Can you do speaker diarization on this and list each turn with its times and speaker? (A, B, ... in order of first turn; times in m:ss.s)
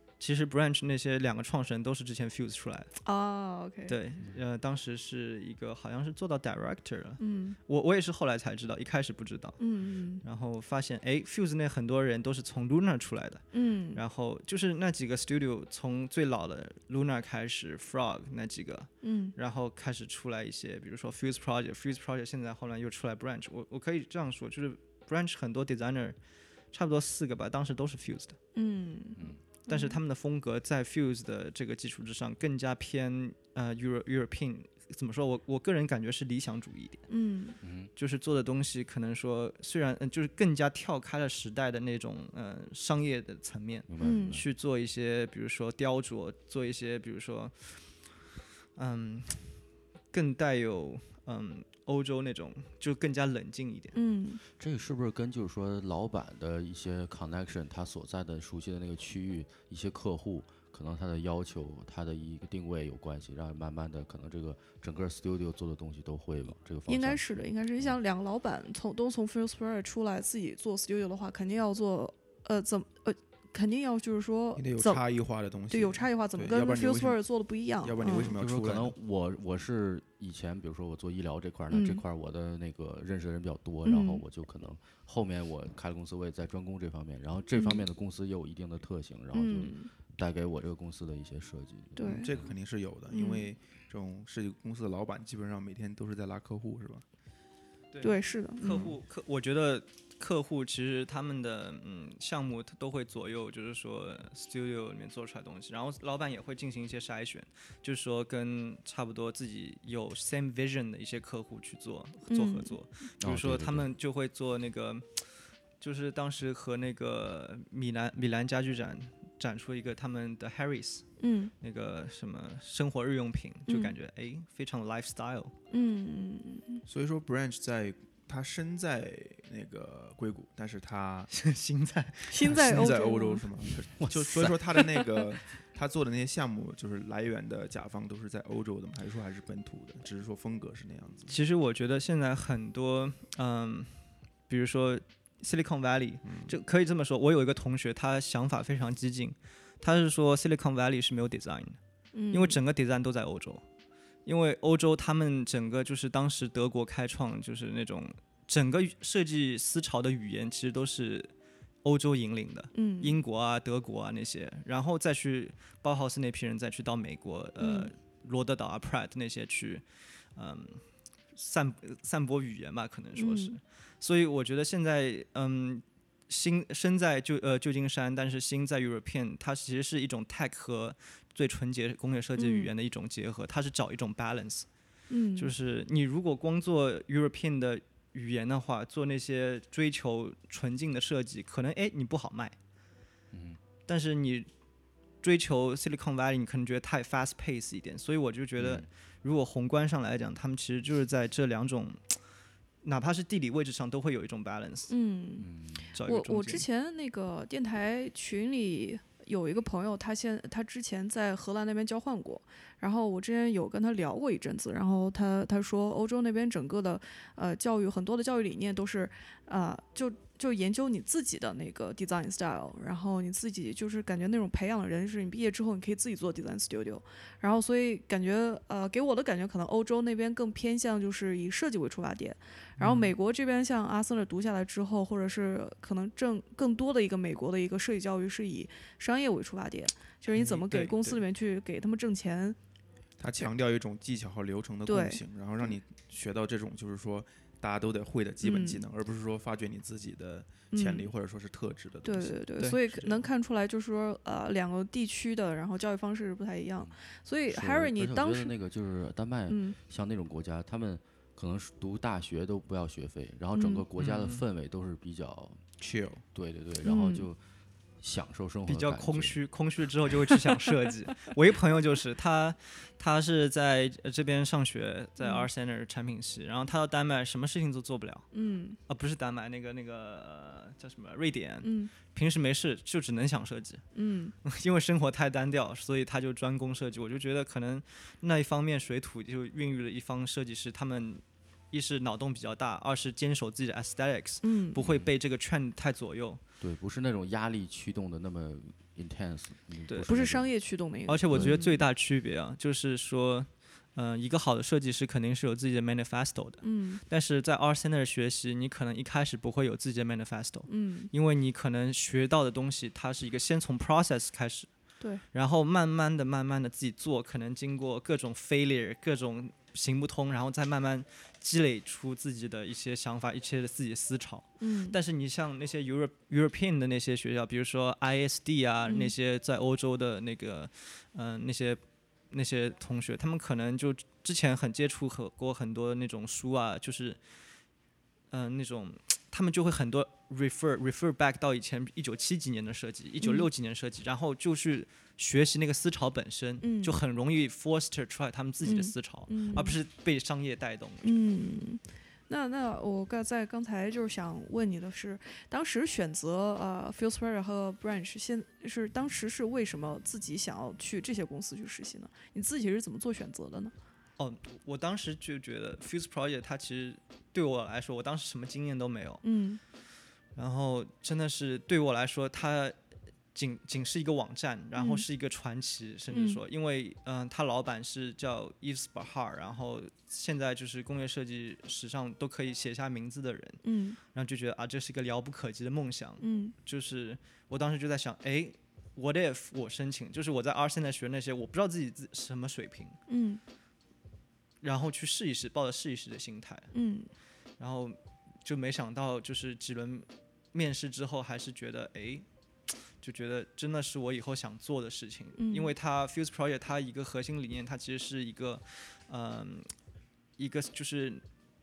0:00.2-0:02.9 A
0:03.0-0:04.0 B
0:03.9-0:09.6 A
0:07.2-0:07.6 B
0:09.6-0:10.2 B
0:10.2-0:26.2 A
0:13.5-0:14.0 B
0:19.0-0:19.4 B
0:26.7-0:28.4 A
0:28.6-0:30.0 B
0:29.7-0:37.1 A
0:37.1-0:37.6 B
0:37.6-0:37.9 C
0:38.0-0:47.8 A
0:43.9-0:44.4 C
0:44.0-0:44.4 B
0:48.8-0:49.6 A
0:50.1-0:54.0 A
0:53.9-0:54.4 B
0:54.6-1:08.0 C
1:06.9-1:15.0 B
1:14.6-1:17.2 D
1:15.7-1:18.4 B
1:17.8-1:19.0 D
1:18.4-1:32.5 C
1:21.7-1:22.0 B
1:23.8-1:24.2 B
1:27.6-1:27.8 B
1:29.3-1:29.9 B
1:32.0-1:32.3 B
1:32.1-1:37.0 D
1:33.1-1:33.5 B
1:37.9-1:55.1 A
1:38.0-1:38.9 B
1:52.3-1:52.8 B
1:53.2-1:53.9 C
1:55.8-2:01.1 A
2:01.2-2:01.5 B
2:01.6-2:05.6 A
2:03.7-2:03.9 B
2:05.7-2:06.8 B
2:06.9-2:11.3 D
2:11.3-2:12.9 A
2:12.3-2:13.4 B
2:12.5-2:21.4 D
2:14.0-2:15.1 C
2:21.3-2:31.8 A
2:26.2-2:26.6 D
2:32.1-2:32.6 B
2:32.3-2:33.6 A
2:34.2-2:41.3 A
2:41.8-2:50.8 A
2:42.7-2:43.2 B
2:47.6-2:47.9 B
2:51.3-3:04.7 A
2:53.2-2:53.6 B
3:02.4-3:02.7 B
3:05.1-3:05.5 B
3:05.4-3:12.6 A
3:13.3-3:13.6 C
3:13.9-3:14.5 A
3:15.2-3:22.2 A
3:18.6-3:18.9 C
3:22.8-3:24.9 A
3:24.9-3:25.5 B
3:25.4-3:25.9 C
3:25.9-3:26.6 A
3:26.0-4:02.6 B
3:52.8-3:53.1 A
4:00.3-4:01.2 A
4:03.2-4:13.2 D
4:04.9-4:05.2 B
4:08.4-4:08.8 B
4:10.7-4:11.1 B
4:12.0-4:18.5 B
4:16.8-4:25.6 C
4:19.5-4:19.8 B
4:23.5-4:23.8 B
4:24.0-4:24.4 A
4:25.8-4:26.2 D
4:26.3-4:27.4 C
4:26.8-4:27.3 B
4:28.0-4:29.4 C
4:28.7-4:38.3 A
4:35.2-4:35.5 B
4:38.3-4:38.8 B
4:38.9-4:43.8 A
4:41.6-4:41.9 B
4:43.9-4:44.4 B
4:44.4-4:56.4 A
4:54.4-4:54.8 B
4:54.8-4:55.1 C
4:56.6-5:00.5 C
5:00.1-5:01.8 B
5:01.1-5:14.7 A
5:01.3-5:01.6 C
5:06.6-5:07.0 B
5:10.7-5:11.1 B
5:15.3-5:37.2 A
5:24.6-5:25.0 B
5:28.9-5:29.1 B
5:38.3-5:51.2 A
5:43.2-5:43.5 B
5:46.6-5:46.9 B
5:48.6-5:49.8 B
5:51.0-6:03.7 B
6:04.2-6:09.2 A
6:09.2-6:09.6 B
6:10.4-6:12.8 A
6:13.3-6:23.6 A
6:14.8-6:15.0 B
6:16.1-6:16.4 B
6:23.6-6:24.0 B
6:24.1-6:33.0 A
6:26.2-6:26.5 B
6:33.1-6:33.4 B
6:34.6-6:36.7 A
6:36.7-6:37.1 B
6:37.6-6:42.3 A
6:43.0-6:49.7 A
6:45.4-6:45.7 B
6:50.4-6:51.2 A